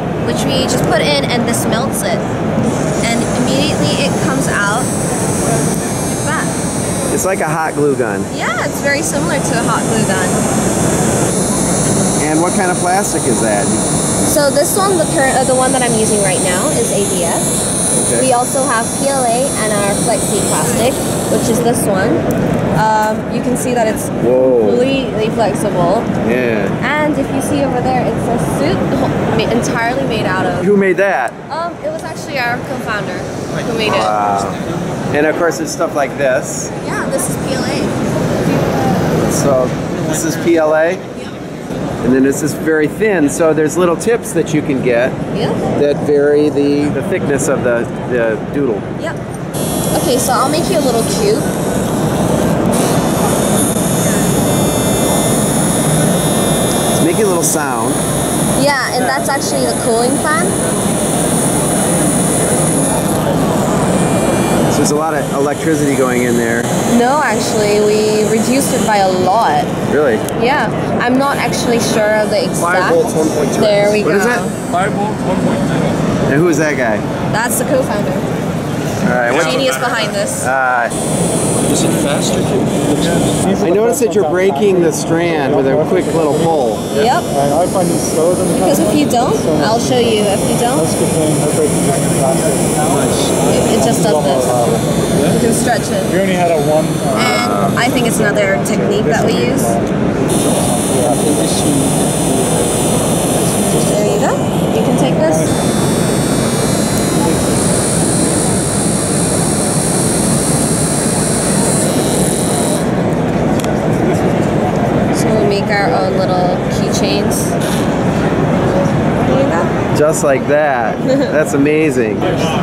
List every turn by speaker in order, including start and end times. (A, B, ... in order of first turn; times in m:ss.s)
0:00.2-0:02.3 A
0:03.0-0:04.9 A
0:06.0-0:06.5 A
0:07.1-0:08.3 B
0:08.3-0:10.4 A
0:12.2-0:13.8 B
0:14.2-0:17.5 A
0:17.9-0:18.3 B
0:18.2-0:22.2 A
0:22.8-0:26.1 A
0:24.2-0:24.9 B
0:26.2-0:26.8 B
0:26.8-0:30.7 A
0:30.6-0:31.4 B
0:31.5-0:34.2 A
0:33.8-0:34.6 B
0:35.1-0:36.7 B
0:36.8-0:38.0 A
0:39.2-0:41.0 B
0:42.0-0:45.2 B
0:45.3-0:45.6 A
0:45.7-0:48.8 B
0:49.9-0:51.5 A
0:56.9-0:58.0 B
0:58.6-1:00.6 A
1:04.7-1:06.7 B
1:06.9-1:09.7 A
1:09.9-1:10.2 B
1:10.3-1:14.6 A
1:12.6-1:14.5 B
1:14.7-1:15.8 C
1:16.3-1:17.0 B
1:17.3-1:18.2 A
1:19.0-1:20.9 B
1:19.3-1:20.5 A
1:21.6-1:23.6 C
1:23.0-1:26.7 D
1:23.6-1:26.9 B
1:26.9-1:27.3 A
1:27.3-1:33.0 D
1:28.5-1:30.9 A
1:32.7-1:33.4 C
1:33.5-1:34.6 A
1:33.7-1:35.0 D
1:35.2-1:36.2 A
1:36.1-1:41.6 D
1:37.1-1:37.8 B
1:37.1-1:39.7 A
1:41.0-1:42.7 C
1:43.4-1:43.8 C
1:43.7-1:44.0 D
1:43.8-1:45.5 A
1:55.1-1:57.6 A
1:59.2-1:59.7 A
1:59.9-2:02.3 B